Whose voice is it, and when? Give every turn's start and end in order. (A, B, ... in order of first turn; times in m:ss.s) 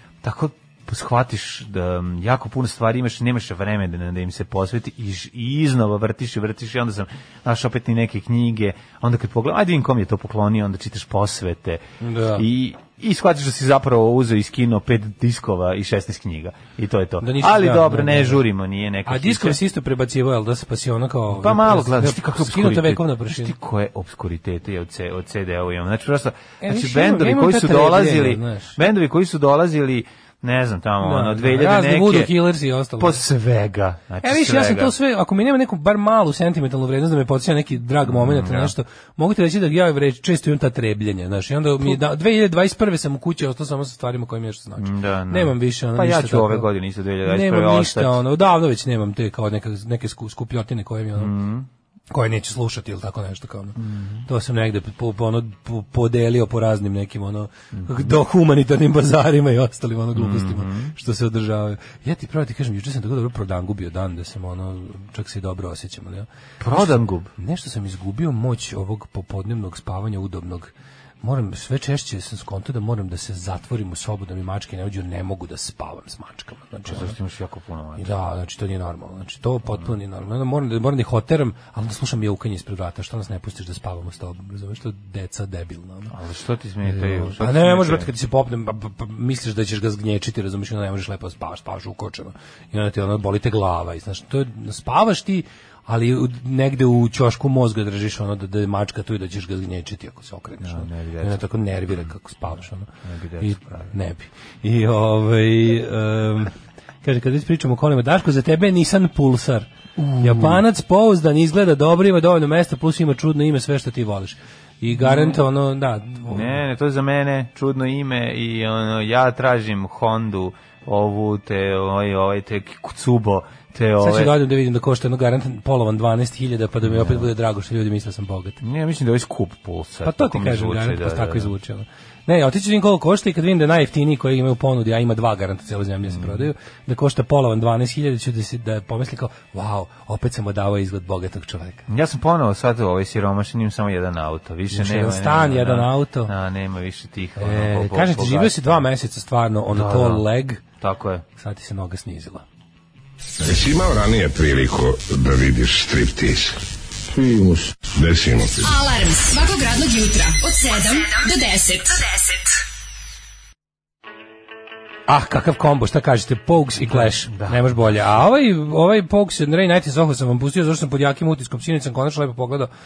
0:00.2-0:11.8 A
0:12.0-0:12.4 B
0:12.3-0:19.6 A
0:17.2-0:18.4 B
0:19.1-0:23.5 B
0:21.3-0:32.3 A
0:26.6-0:28.8 B
0:31.0-0:33.2 B
0:33.0-0:34.9 A
0:34.2-0:46.7 B
0:38.0-0:38.7 A
0:44.8-0:48.2 A
0:47.2-0:51.3 B
0:51.2-0:51.7 A
0:52.1-1:17.1 B
0:53.8-0:54.2 A
0:57.7-0:58.1 A
1:00.1-1:00.9 A
1:06.6-1:07.3 A
1:16.8-1:18.1 A
1:18.0-1:26.1 B
1:26.1-1:28.1 A
1:26.8-1:56.6 B
1:40.6-1:42.1 A
1:43.0-1:43.9 A
1:50.0-1:50.6 A
1:54.9-1:55.4 A
1:56.3-2:04.4 A
2:04.0-2:08.6 B
2:06.8-2:07.3 A
2:08.6-2:11.5 A
2:10.0-2:21.8 B
2:16.1-2:16.5 A
2:21.9-2:28.8 A
2:24.7-2:26.3 B
2:27.4-2:30.6 B
2:29.7-2:30.2 A
2:30.8-2:31.2 A
2:31.4-2:32.4 B
2:33.4-2:38.7 C
2:38.6-2:42.5 D
2:45.1-2:52.7 B
2:46.8-2:48.2 A